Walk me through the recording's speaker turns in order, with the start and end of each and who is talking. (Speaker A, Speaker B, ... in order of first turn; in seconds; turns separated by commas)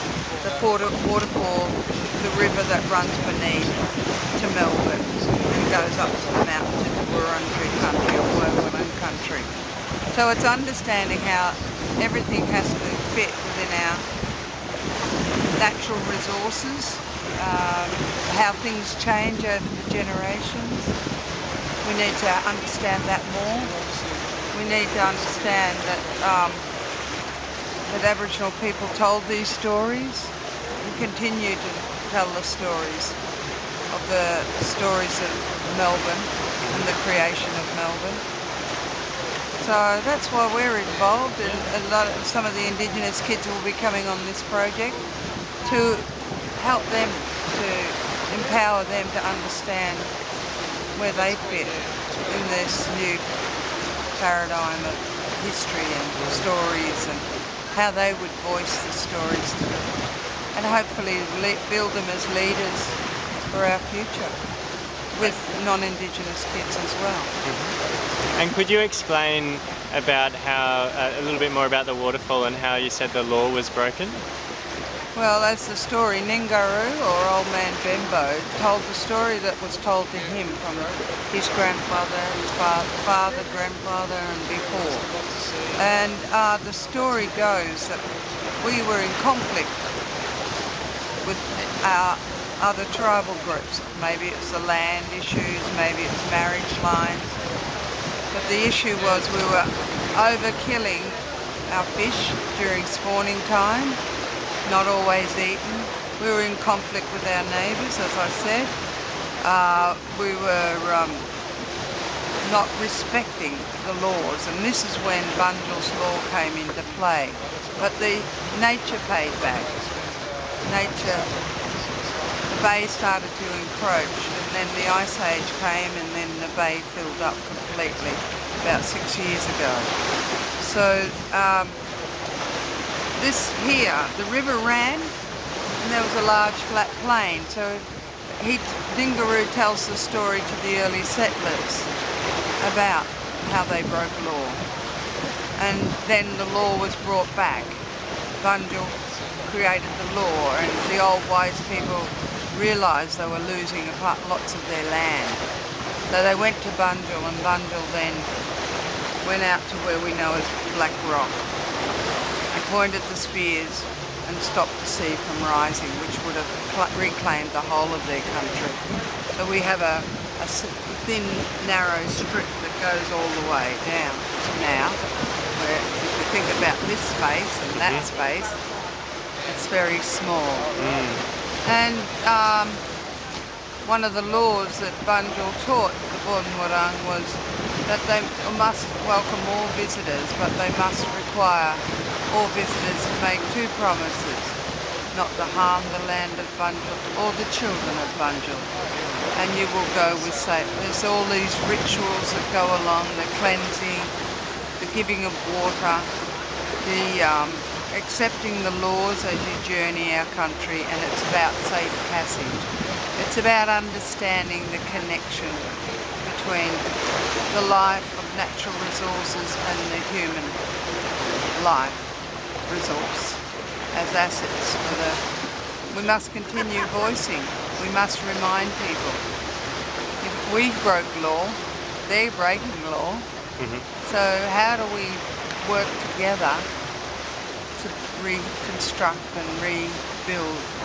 Speaker A: 0.4-3.8, Speaker A: 4.3-9.5, Speaker A: 10.1-14.0, Speaker A: 15.5-20.9, Speaker A: 21.8-23.7, Speaker A: 24.5-26.7, Speaker A: 27.9-33.2, Speaker A: 33.9-38.2, Speaker B: 36.6-36.9, Speaker A: 39.6-45.0, Speaker A: 45.6-50.1, Speaker A: 51.0-53.2, Speaker A: 54.2-59.7, Speaker B: 56.2-56.5, Speaker A: 60.5-63.0, Speaker A: 63.5-64.3, Speaker A: 65.1-67.3, Speaker B: 67.4-67.8, Speaker B: 68.3-74.2, Speaker A: 75.2-85.1, Speaker A: 85.8-88.0, Speaker A: 88.6-89.8, Speaker A: 91.2-97.3, Speaker A: 98.3-104.0, Speaker A: 104.6-108.7, Speaker A: 109.4-111.3, Speaker A: 112.4-119.7, Speaker A: 120.6-121.3, Speaker A: 122.5-129.9, Speaker A: 130.6-131.8, Speaker A: 133.2-135.1, Speaker A: 135.8-137.8, Speaker A: 138.4-141.9, Speaker A: 142.6-144.6, Speaker A: 145.6-147.8, Speaker A: 148.4-155.4, Speaker A: 156.1-158.3, Speaker A: 159.2-161.4, Speaker A: 162.5-168.8, Speaker A: 169.4-175.0, Speaker A: 175.6-178.6, Speaker B: 177.8-178.1, Speaker A: 179.4-180.7, Speaker B: 180.8-181.2, Speaker A: 181.6-182.8, Speaker A: 183.8-194.6, Speaker A: 195.1-198.7, Speaker A: 199.3-204.1, Speaker A: 204.8-206.1, Speaker A: 206.8-216.9, Speaker A: 217.5-220.6, Speaker A: 221.6-222.0, Speaker A: 222.7-223.4, Speaker A: 223.9-225.2, Speaker A: 225.9-229.2, Speaker A: 230.2-233.2, Speaker B: 233.6-233.8, Speaker A: 234.0-236.7, Speaker A: 237.8-240.7